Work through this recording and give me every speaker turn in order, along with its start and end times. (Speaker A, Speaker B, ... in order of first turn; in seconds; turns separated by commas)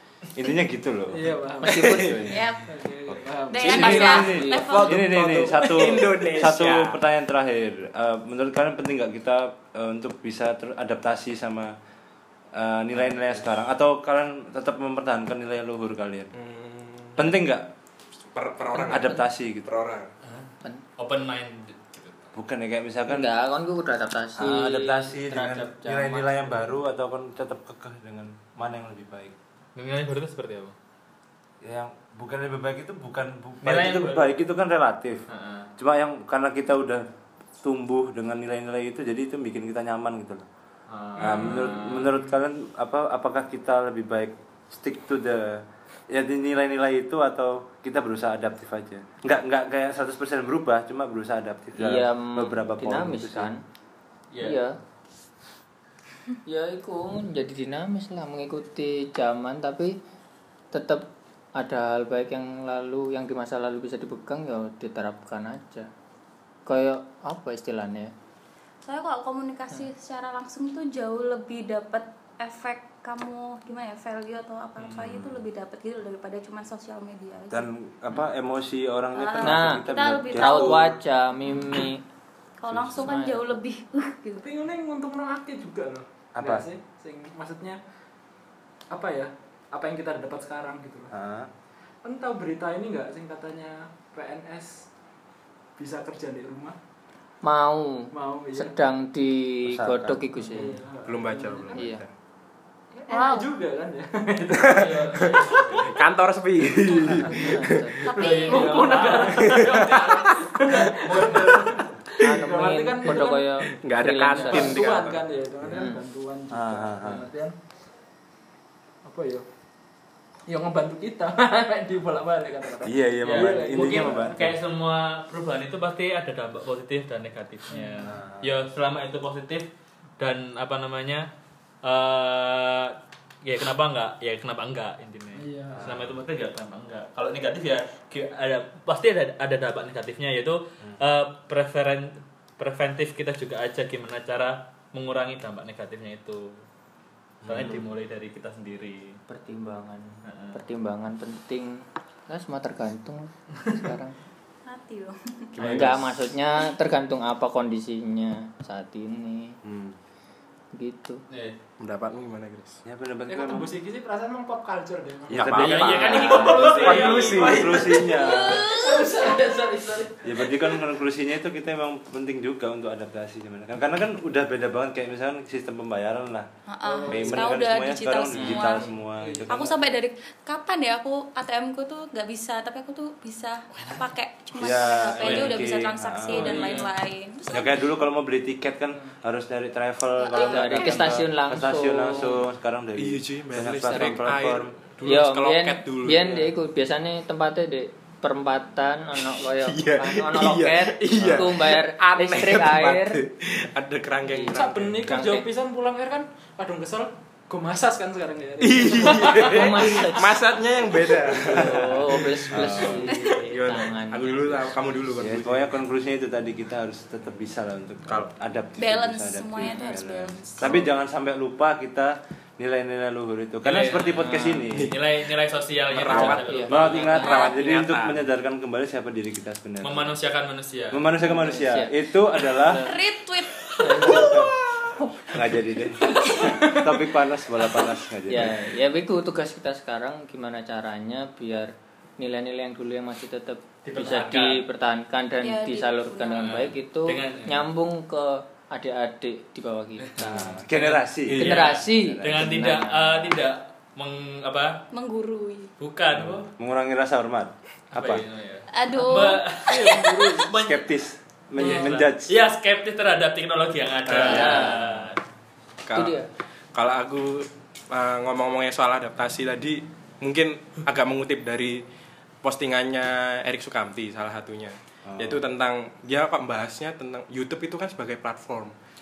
Speaker A: 0.3-2.5, Speaker B: 1.1-4.3, Speaker C: 1.6-2.4, Speaker D: 2.2-2.7, Speaker A: 3.1-11.7, Speaker D: 3.5-5.0, Speaker C: 3.8-4.9, Speaker E: 4.6-7.0, Speaker B: 4.9-6.4, Speaker A: 12.5-16.3, Speaker E: 16.3-17.4, Speaker A: 17.2-17.7, Speaker E: 18.3-20.1, Speaker C: 18.7-19.1, Speaker A: 18.9-19.7, Speaker F: 20.2-22.4, Speaker A: 22.3-23.3, Speaker C: 23.1-26.6, Speaker A: 24.4-29.4, Speaker F: 29.8-30.8, Speaker A: 31.6-35.2, Speaker F: 33.6-34.4, Speaker F: 35.3-35.7, Speaker A: 35.8-37.0, Speaker A: 37.6-40.5, Speaker F: 40.9-42.3, Speaker A: 41.2-53.5, Speaker C: 51.8-53.6, Speaker F: 54.3-54.6, Speaker C: 54.4-54.8, Speaker C: 56.5-60.0, Speaker C: 60.7-65.9, Speaker C: 66.7-68.1, Speaker D: 68.8-77.7, Speaker A: 75.0-75.4, Speaker A: 77.5-81.0, Speaker D: 79.1-80.9, Speaker C: 79.4-82.0, Speaker D: 82.6-84.5, Speaker A: 82.7-83.1, Speaker C: 83.0-83.6, Speaker B: 84.4-87.8, Speaker A: 86.3-86.7, Speaker B: 88.9-91.1, Speaker A: 91.1-91.5, Speaker B: 92.0-94.9, Speaker B: 95.8-96.8, Speaker C: 97.4-100.8, Speaker B: 98.1-98.8, Speaker A: 99.7-100.2, Speaker B: 100.4-101.9, Speaker E: 101.0-102.1, Speaker C: 101.7-102.0, Speaker B: 102.9-105.8, Speaker D: 103.1-103.5, Speaker E: 104.5-108.0, Speaker F: 104.7-106.0, Speaker C: 107.2-108.0, Speaker D: 108.0-109.1, Speaker F: 108.1-110.0, Speaker B: 108.1-113.5, Speaker E: 109.2-111.7, Speaker C: 112.2-114.9, Speaker E: 113.1-115.2, Speaker B: 114.3-117.6, Speaker C: 115.7-116.0, Speaker A: 116.5-117.3, Speaker B: 119.0-119.5, Speaker B: 120.5-124.5, Speaker A: 122.8-124.6, Speaker F: 123.2-131.3, Speaker B: 127.7-128.2, Speaker A: 128.0-128.5, Speaker F: 131.8-146.6, Speaker B: 135.3-136.0, Speaker A: 135.8-136.1, Speaker A: 147.4-147.9, Speaker F: 147.5-149.2, Speaker E: 147.5-147.8, Speaker C: 149.3-154.2, Speaker F: 150.2-150.6, Speaker D: 154.7-155.6, Speaker E: 155.6-156.1, Speaker C: 155.6-159.6, Speaker E: 159.6-159.9, Speaker C: 160.8-161.2, Speaker F: 161.3-161.6, Speaker E: 161.8-162.8, Speaker A: 162.9-163.7, Speaker B: 163.3-170.7, Speaker E: 165.3-168.0, Speaker A: 165.3-168.7, Speaker F: 165.5-167.6, Speaker D: 168.1-169.1, Speaker A: 170.2-176.5, Speaker D: 176.7-178.9, Speaker B: 176.8-177.6, Speaker A: 177.1-179.7, Speaker C: 178.3-178.6, Speaker B: 179.2-179.9, Speaker D: 179.5-187.7, Speaker A: 184.6-186.7, Speaker F: 185.2-185.6, Speaker B: 186.3-187.0, Speaker A: 187.5-194.7, Speaker D: 190.2-191.2, Speaker C: 190.4-192.4, Speaker E: 193.0-196.5, Speaker C: 195.0-203.2, Speaker E: 199.6-205.2, Speaker A: 201.2-201.5, Speaker C: 204.3-205.4, Speaker B: 204.4-209.9, Speaker E: 208.6-215.7, Speaker C: 208.9-210.3, Speaker C: 211.3-214.7, Speaker A: 211.4-213.1, Speaker D: 213.1-213.4, Speaker A: 215.2-225.0, Speaker D: 218.8-220.8, Speaker F: 223.6-227.4, Speaker C: 224.3-224.6, Speaker E: 225.9-228.2, Speaker A: 225.9-230.2, Speaker C: 226.2-227.4, Speaker D: 227.1-227.6, Speaker F: 229.8-231.1, Speaker A: 230.9-232.8, Speaker C: 231.2-233.0, Speaker D: 232.7-234.4, Speaker C: 233.8-234.4, Speaker B: 233.8-234.5, Speaker A: 234.0-234.5, Speaker A: 235.3-238.6, Speaker B: 236.0-237.0, Speaker D: 236.3-236.5, Speaker C: 238.3-250.4, Speaker F: 243.8-244.7, Speaker D: 245.4-246.6, Speaker F: 246.3-247.7, Speaker F: 250.1-254.9, Speaker A: 250.2-252.8, Speaker E: 251.3-251.7, Speaker C: 251.4-253.4, Speaker D: 254.9-255.7, Speaker F: 255.8-256.5, Speaker A: 256.1-258.2, Speaker F: 257.9-260.9, Speaker D: 258.7-260.1, Speaker B: 259.7-260.5, Speaker A: 260.5-262.4, Speaker F: 261.6-265.2, Speaker D: 261.6-261.9, Speaker E: 264.1-264.7, Speaker A: 264.2-265.0, Speaker C: 264.3-264.8, Speaker E: 265.9-266.2, Speaker C: 265.9-266.3, Speaker E: 266.7-271.8, Speaker E: 272.4-278.7, Speaker A: 275.1-275.4